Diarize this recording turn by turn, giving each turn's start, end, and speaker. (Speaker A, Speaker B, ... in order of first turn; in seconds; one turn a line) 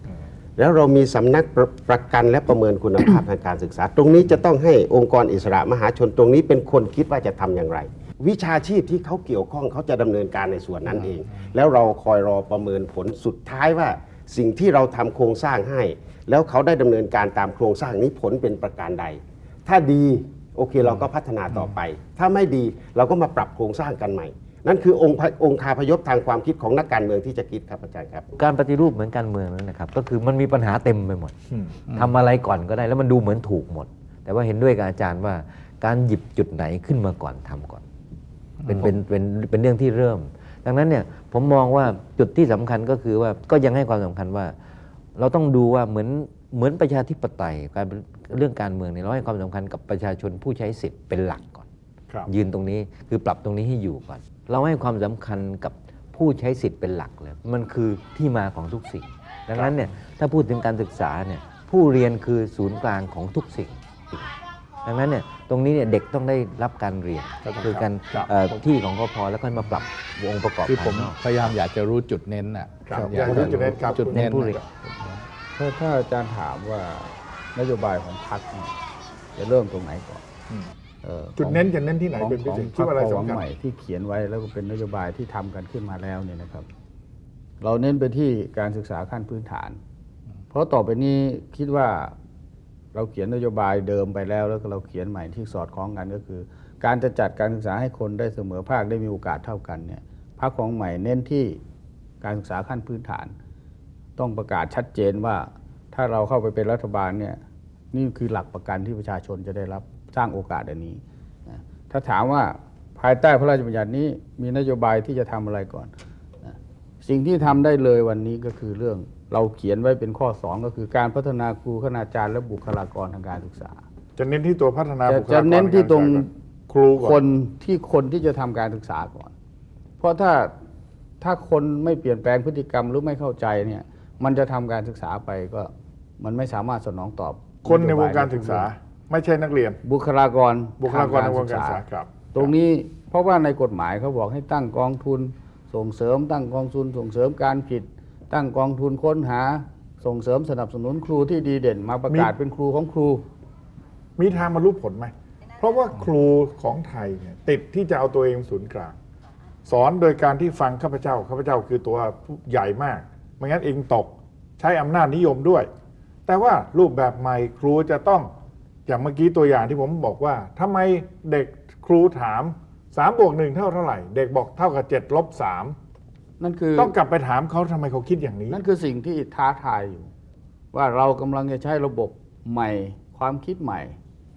Speaker A: 0.6-28.2
Speaker B: 28.3-31.3
Speaker B: 31.9-37.8
Speaker B: 38.6-44.5
Speaker B: 45.1-51.7
Speaker B: 52.2-71.5
Speaker C: 67.4-68.6
Speaker D: 70.7-74.6
Speaker C: 72.8-74.6
Speaker B: 73.2-74.6
Speaker E: 75.5-78.7
Speaker E: 79.3-80.2
Speaker E: 81.0-86.7
Speaker C: 81.4-83.4
Speaker E: 87.6-89.8
Speaker E: 90.5-92.1
Speaker E: 92.9-101.6
Speaker E: 102.2-103.3
Speaker E: 104.2-107.4
Speaker E: 107.9-115.9
Speaker E: 116.4-123.8
Speaker C: 124.2-127.2
Speaker E: 125.0-126.3
Speaker E: 127.0-129.3
Speaker E: 130.0-130.5
Speaker E: 131.2-138.7
Speaker C: 137.6-139.8
Speaker E: 139.8-141.8
Speaker C: 140.8-142.5
Speaker E: 142.3-153.2
Speaker C: 152.1-152.3
Speaker C: 154.2-158.9
Speaker C: 159.7-165.7
Speaker C: 166.3-168.3
Speaker C: 168.9-175.8
Speaker E: 176.4-176.9
Speaker C: 176.8-178.6
Speaker E: 178.5-180.1
Speaker E: 180.7-184.0